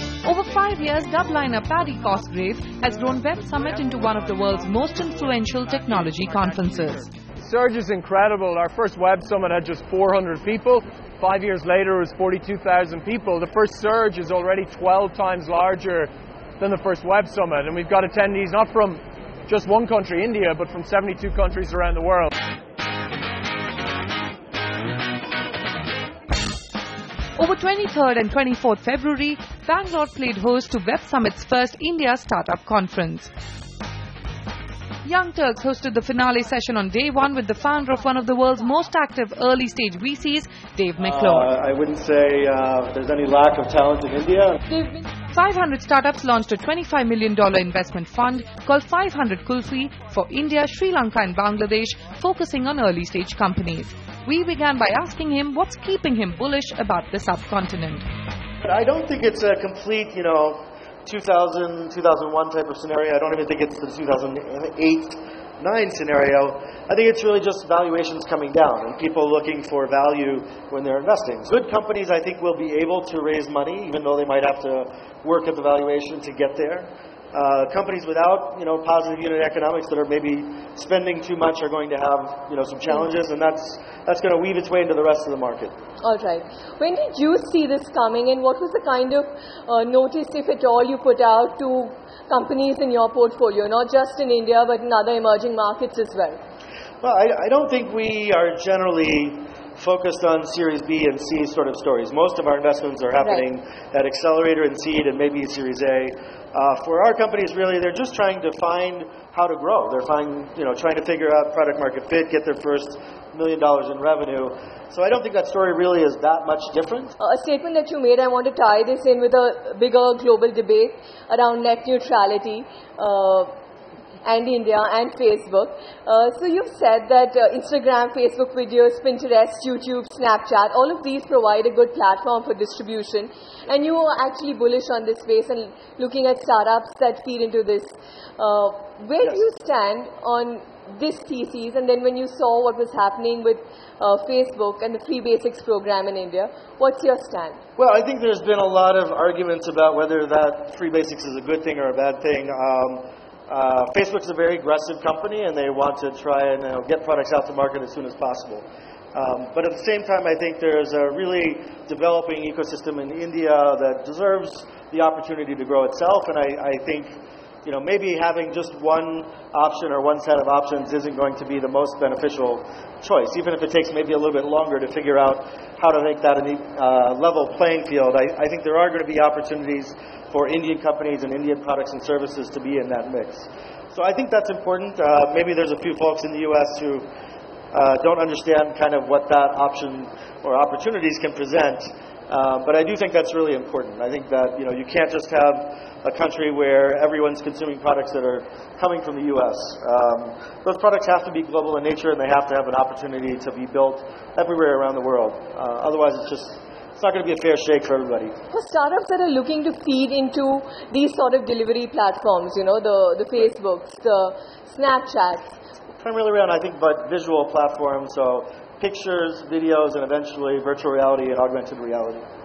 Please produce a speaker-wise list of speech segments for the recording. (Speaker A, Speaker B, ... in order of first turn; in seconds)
Speaker A: 0.2-7.1, 27.4-33.3, 35.0-41.5, 45.3-58.0
Speaker B: 7.4-22.3
Speaker C: 41.0-44.6, 58.6-85.7, 97.0-117.1, 147.8-187.1, 187.7-208.3, 215.9-222.3
Speaker D: 44.7-45.0, 86.0-96.4, 117.2-123.5, 124.2-147.6, 208.5-215.5